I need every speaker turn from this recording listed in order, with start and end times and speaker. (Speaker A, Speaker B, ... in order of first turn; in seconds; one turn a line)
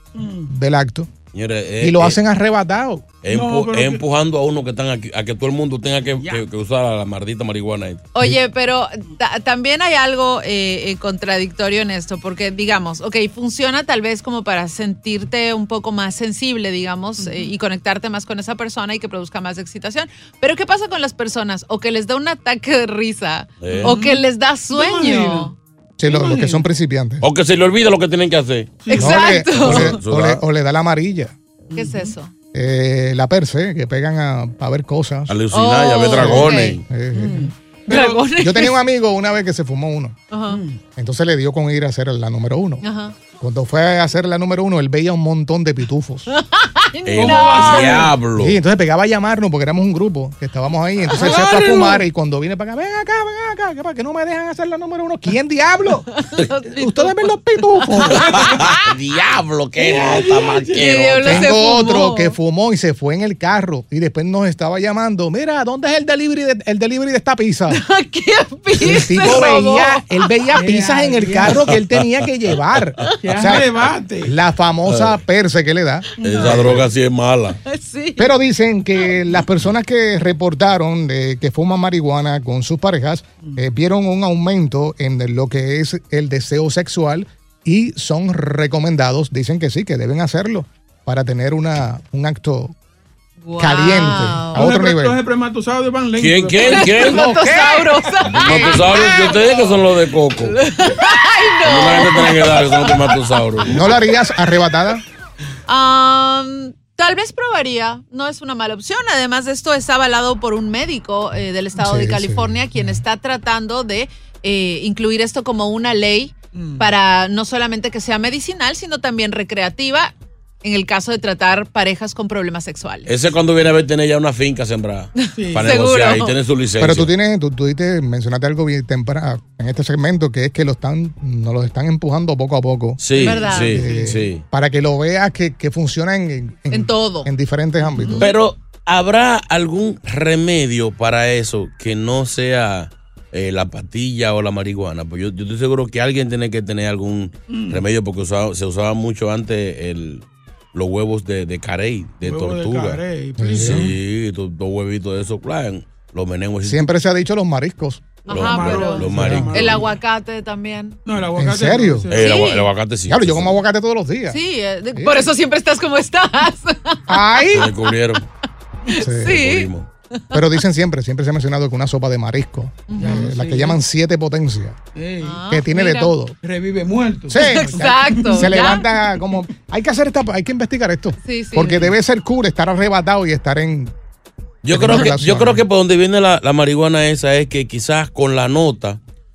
Speaker A: 0.5-1.1
Speaker B: 1.3-2.2
Speaker A: 1.8-3.0
Speaker B: 3.2-8.0
Speaker C: 3.3-4.0
Speaker D: 8.1-25.5
Speaker B: 23.6-24.1
Speaker C: 25.1-25.4
Speaker A: 26.0-27.2
Speaker C: 26.2-26.5
Speaker B: 27.2-30.5
Speaker D: 28.9-30.0
Speaker A: 29.0-31.3
Speaker D: 31.7-32.3
Speaker A: 32.5-35.4
Speaker B: 35.3-36.8
Speaker D: 35.5-38.8
Speaker A: 36.1-37.4
Speaker C: 37.4-38.1
Speaker A: 38.4-40.2
Speaker D: 40.3-40.6
Speaker A: 41.0-42.8
Speaker D: 42.8-43.2
Speaker A: 43.4-46.3
Speaker D: 46.3-48.1
Speaker B: 47.1-48.6
Speaker A: 48.4-56.1
Speaker D: 56.3-58.3
Speaker A: 56.8-58.4
Speaker B: 58.2-61.5
Speaker D: 60.8-62.4
Speaker A: 61.2-67.8
Speaker D: 67.7-70.3
Speaker A: 68.8-76.9
Speaker C: 70.7-71.3
Speaker B: 71.4-72.0
Speaker B: 73.0-73.6
Speaker C: 73.2-74.2
Speaker B: 74.9-75.2
Speaker B: 76.2-77.6
Speaker D: 77.7-78.3
Speaker A: 78.2-92.8
Speaker D: 93.4-94.7
Speaker A: 93.6-95.2
Speaker C: 94.6-96.3
Speaker B: 96.1-97.3
Speaker D: 96.6-103.2
Speaker A: 96.9-99.2
Speaker B: 98.3-100.6
Speaker B: 101.7-103.8
Speaker A: 103.6-105.0
Speaker D: 105.7-123.1
Speaker A: 111.8-113.0
Speaker B: 123.0-127.1
Speaker D: 125.6-126.4
Speaker A: 126.8-138.3
Speaker B: 133.0-134.4
Speaker D: 133.2-133.8
Speaker D: 136.7-137.3
Speaker B: 138.2-156.9
Speaker C: 152.3-153.8
Speaker A: 153.4-154.0
Speaker A: 156.6-158.2
Speaker D: 158.2-161.0
Speaker B: 158.3-159.8
Speaker C: 159.1-159.7
Speaker A: 159.2-159.7
Speaker C: 161.1-161.9
Speaker A: 161.3-162.2
Speaker B: 162.1-163.6
Speaker D: 162.1-162.7
Speaker A: 163.1-164.4
Speaker D: 164.3-167.6
Speaker A: 164.9-165.3
Speaker A: 167.1-167.7
Speaker B: 167.5-168.2
Speaker D: 168.9-170.4
Speaker A: 169.0-169.4
Speaker B: 169.2-169.9
Speaker A: 170.3-174.8
Speaker D: 172.9-173.3
Speaker C: 173.0-173.7
Speaker C: 175.0-175.3
Speaker D: 175.2-176.2
Speaker A: 175.5-176.4
Speaker C: 176.6-177.3
Speaker D: 177.3-178.8
Speaker A: 177.3-183.9
Speaker D: 181.2-181.9
Speaker B: 184.6-189.0
Speaker A: 184.7-185.7